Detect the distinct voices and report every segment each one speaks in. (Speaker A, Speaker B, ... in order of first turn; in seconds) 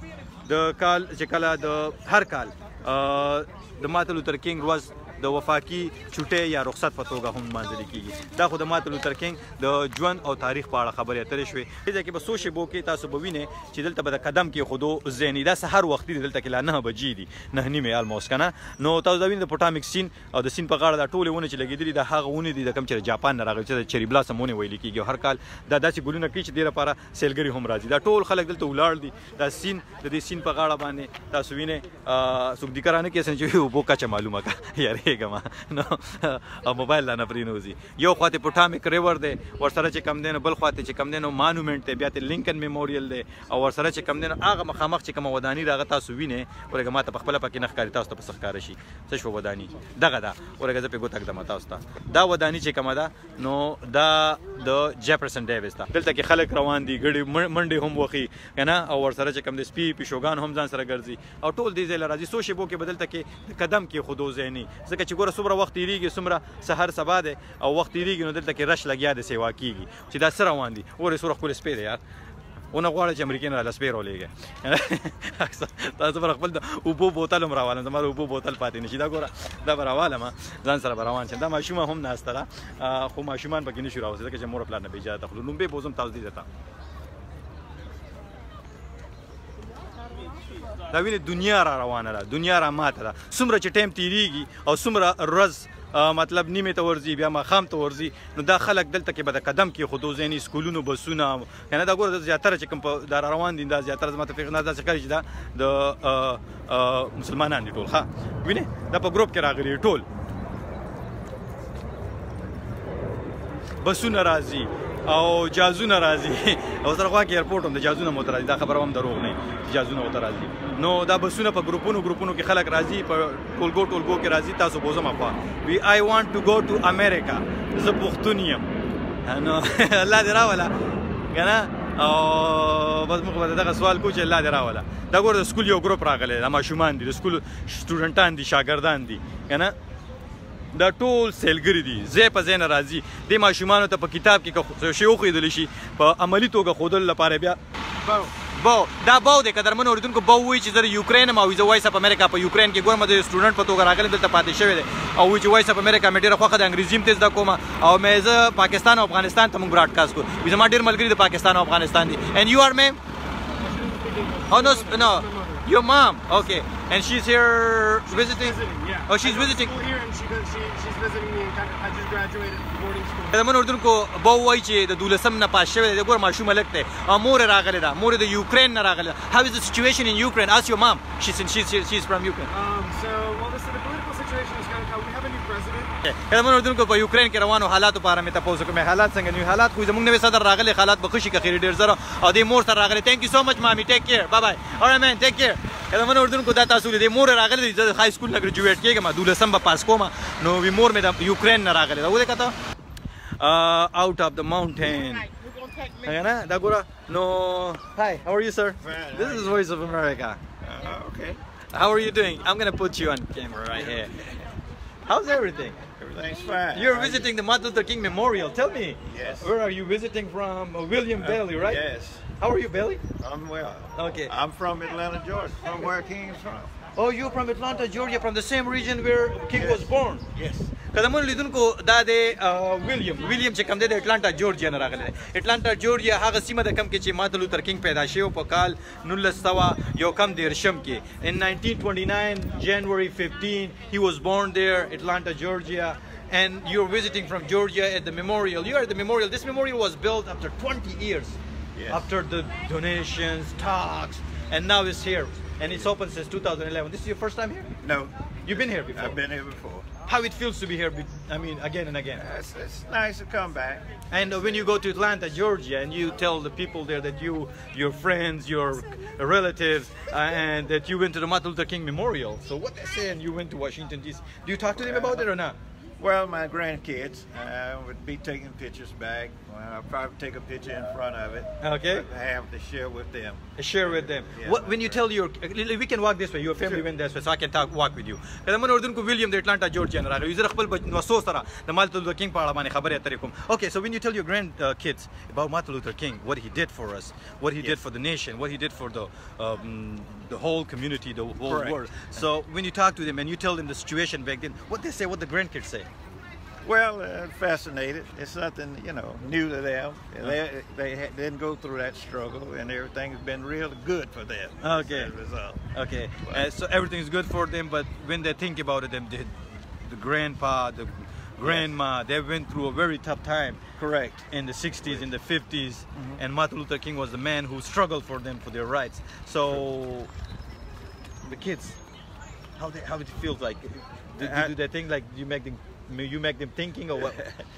Speaker A: 0.5-72.0, 72.7-86.5, 90.9-110.0, 113.8-128.7, 129.3-130.7, 131.3-139.8, 140.7-147.6, 148.4-163.0, 164.5-169.8, 173.3-182.5, 186.0-202.6, 203.4-205.3, 205.9-210.4, 211.7-214.3, 215.1-215.8, 216.7-221.8, 222.4-223.0, 224.0-224.3, 226.9-230.3, 230.9-251.4, 251.9-257.7, 258.5-259.2, 260.1-262.2, 264.1-275.6, 281.6-282.1, 283.6-305.9, 314.6-315.1, 315.7-319.3, 319.9-323.6, 324.3-330.1, 331.2-331.8, 332.6-337.2
Speaker B: 163.7-165.3, 168.4-173.3, 182.6-185.9
Speaker C: 208.8-209.6, 210.6-211.4, 216.0-217.3, 219.0-219.5, 221.2-222.3, 223.2-226.7, 229.5-230.7, 251.8-252.1, 257.8-259.9, 262.2-264.7, 274.8-275.2, 276.0-283.4, 284.2-285.0, 301.5-301.8, 306.6-315.7, 316.2-316.5, 321.4-321.7, 323.8-324.2, 325.9-326.2, 334.2-334.5